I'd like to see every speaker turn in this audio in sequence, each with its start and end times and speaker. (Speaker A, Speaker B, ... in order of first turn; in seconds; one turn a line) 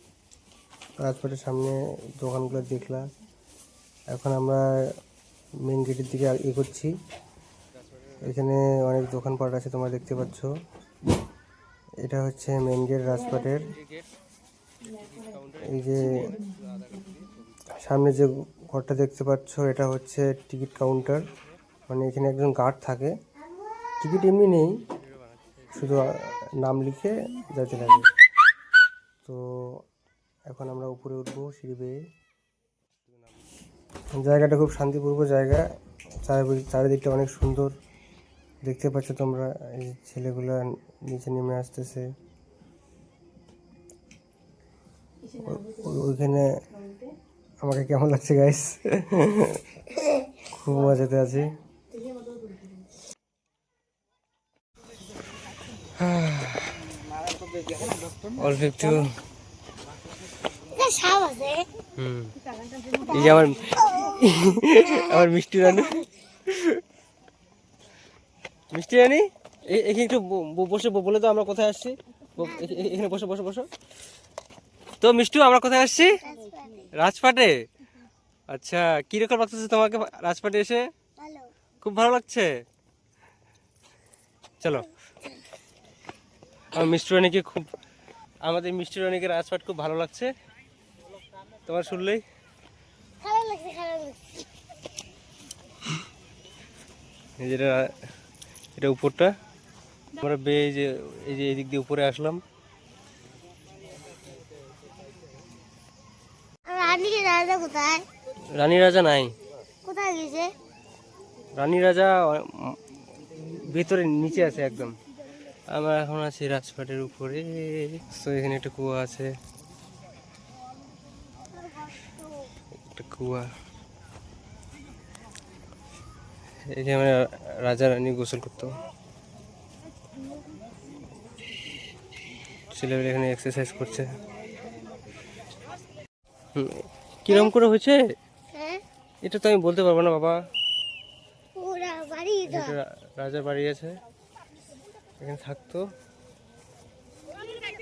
Speaker A: 1.0-3.1
Speaker A: 4.1-4.8
Speaker A: 5.6-6.9
Speaker A: 8.2-10.5
Speaker A: 12.0-13.8
Speaker A: 15.3-16.4
Speaker A: 17.8-21.3
Speaker A: 21.9-23.1
Speaker A: 24.0-24.7
Speaker A: 25.7-28.1
Speaker A: 29.2-29.8
Speaker A: 30.5-32.0
Speaker A: 34.1-35.6
Speaker A: 36.2-37.7
Speaker A: 38.6-42.1
Speaker A: 45.3-46.5
Speaker A: 47.6-51.5
Speaker A: 55.9-56.7
Speaker A: 58.2-59.1
Speaker B: 60.6-61.7
Speaker A: 62.0-62.3
Speaker A: 62.9-66.8
Speaker A: 68.7-73.7
Speaker B: 72.4-72.7
Speaker A: 75.0-76.2
Speaker B: 76.2-76.9
Speaker A: 76.9-77.6
Speaker A: 78.5-80.9
Speaker B: 81.2-81.5
Speaker A: 81.8-82.5
Speaker A: 84.6-84.9
Speaker A: 86.7-87.7
Speaker A: 88.4-90.3
Speaker A: 91.6-92.2
Speaker B: 93.2-94.4
Speaker A: 97.4-98.0
Speaker A: 98.8-99.3
Speaker A: 100.1-102.4
Speaker B: 106.7-108.0
Speaker A: 108.5-109.3
Speaker B: 109.8-110.5
Speaker A: 111.5-115.0
Speaker A: 115.7-119.3
Speaker B: 121.5-122.3
Speaker A: 122.8-123.5
Speaker A: 126.7-128.7
Speaker A: 132.7-134.1
Speaker A: 136.5-138.0
Speaker B: 138.5-138.8
Speaker A: 139.2-140.4
Speaker B: 141.6-142.8
Speaker A: 142.5-144.0
Speaker A: 145.2-145.9